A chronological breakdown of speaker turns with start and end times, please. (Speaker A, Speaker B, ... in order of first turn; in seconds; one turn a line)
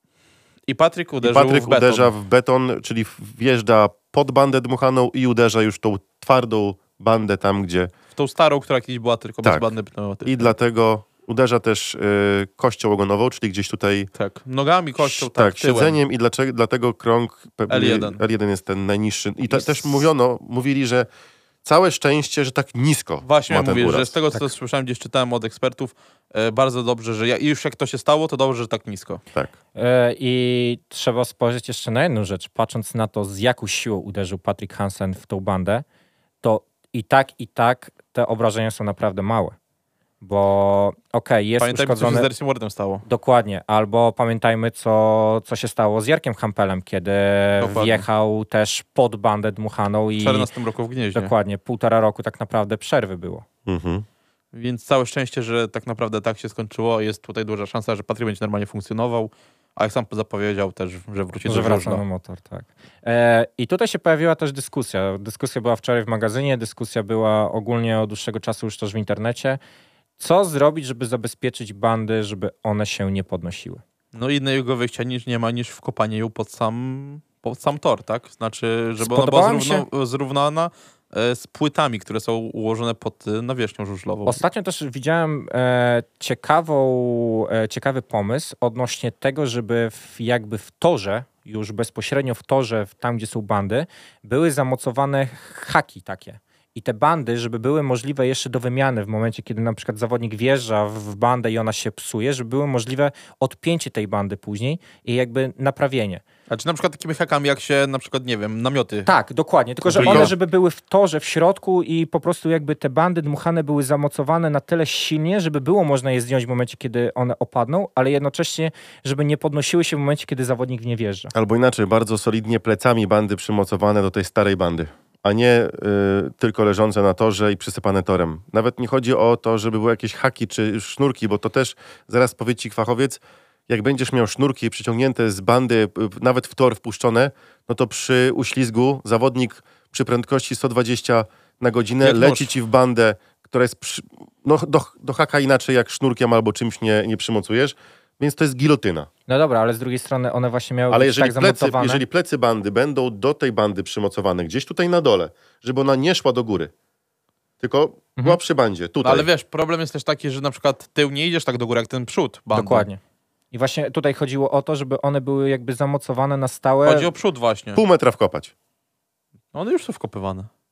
Speaker A: 0.7-2.1
Speaker B: 1.2-7.9
Speaker A: 8.1-10.5
Speaker B: 9.4-9.7
Speaker B: 10.2-14.1
Speaker A: 14.2-16.0
Speaker B: 15.0-21.1
Speaker A: 17.7-18.2
Speaker A: 19.5-20.0
Speaker B: 21.6-24.1
Speaker A: 23.2-29.2
Speaker C: 29.7-35.8
Speaker C: 36.4-39.5
Speaker C: 40.2-42.3
Speaker A: 41.6-43.0
Speaker C: 43.0-50.5
Speaker A: 47.6-48.0
Speaker A: 50.2-51.3
Speaker C: 51.1-53.4
Speaker B: 53.7-54.0
Speaker A: 54.5-62.0
Speaker C: 61.5-69.6
Speaker C: 70.2-73.8
Speaker A: 74.1-84.4
Speaker C: 79.0-79.8
Speaker C: 84.2-106.2
Speaker A: 106.5-109.1
Speaker C: 109.0-121.3
Speaker A: 109.9-110.3
Speaker B: 109.9-110.3
Speaker B: 121.3-149.1
Speaker A: 142.0-142.5
Speaker C: 149.3-152.0
Speaker B: 150.9-156.7
Speaker B: 157.6-159.3
Speaker A: 159.0-162.9
Speaker C: 162.5-163.0
Speaker C: 163.5-167.1
Speaker A: 166.8-167.8
Speaker B: 167.7-168.5
Speaker A: 169.5-170.5